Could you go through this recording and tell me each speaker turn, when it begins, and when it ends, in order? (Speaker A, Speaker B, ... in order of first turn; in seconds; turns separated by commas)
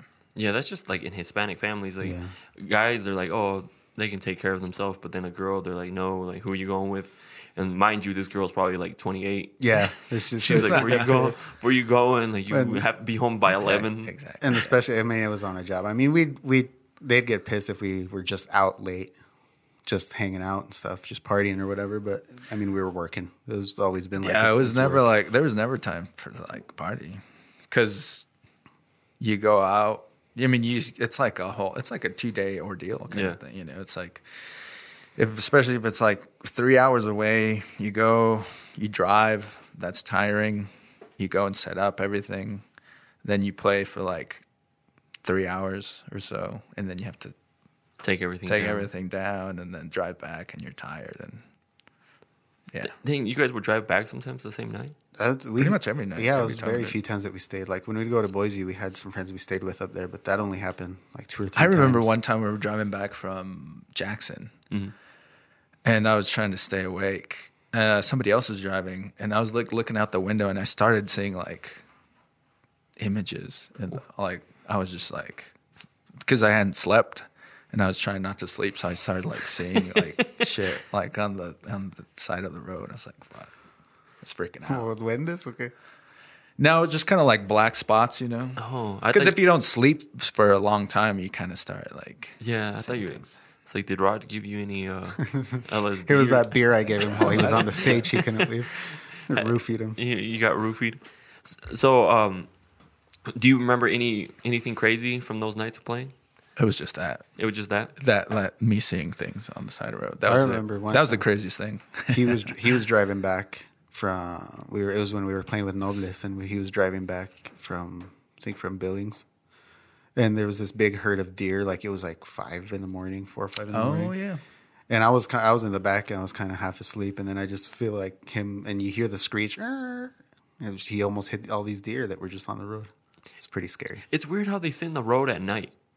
Speaker A: 0.3-14.1, Speaker B: 2.0-2.3, Speaker B: 9.6-11.4, Speaker C: 10.4-11.1, Speaker B: 12.5-12.9, Speaker C: 13.5-14.8, Speaker B: 14.4-19.1, Speaker B: 19.9-25.1, Speaker C: 24.2-28.2, Speaker C: 29.2-34.4, Speaker A: 33.1-33.4, Speaker C: 35.2-42.6, Speaker C: 43.2-44.4, Speaker C: 45.2-47.3, Speaker A: 48.0-48.9, Speaker C: 48.5-51.4, Speaker A: 52.9-55.0, Speaker B: 55.2-62.1, Speaker C: 55.6-57.0, Speaker C: 61.6-64.5, Speaker C: 65.8-71.8, Speaker C: 73.0-75.5, Speaker C: 76.2-83.5, Speaker A: 80.0-80.3, Speaker C: 84.2-84.9, Speaker B: 84.7-85.7, Speaker C: 86.6-93.4, Speaker A: 88.6-89.4, Speaker A: 92.4-98.6, Speaker B: 95.2-100.0, Speaker C: 97.2-98.0, Speaker A: 99.3-102.5, Speaker A: 103.3-106.1, Speaker C: 106.6-107.2, Speaker A: 107.4-107.9, Speaker C: 108.0-112.5, Speaker B: 110.3-111.3, Speaker B: 112.1-119.2, Speaker B: 120.2-124.1, Speaker C: 123.7-124.4, Speaker B: 124.9-134.1, Speaker A: 134.1-135.7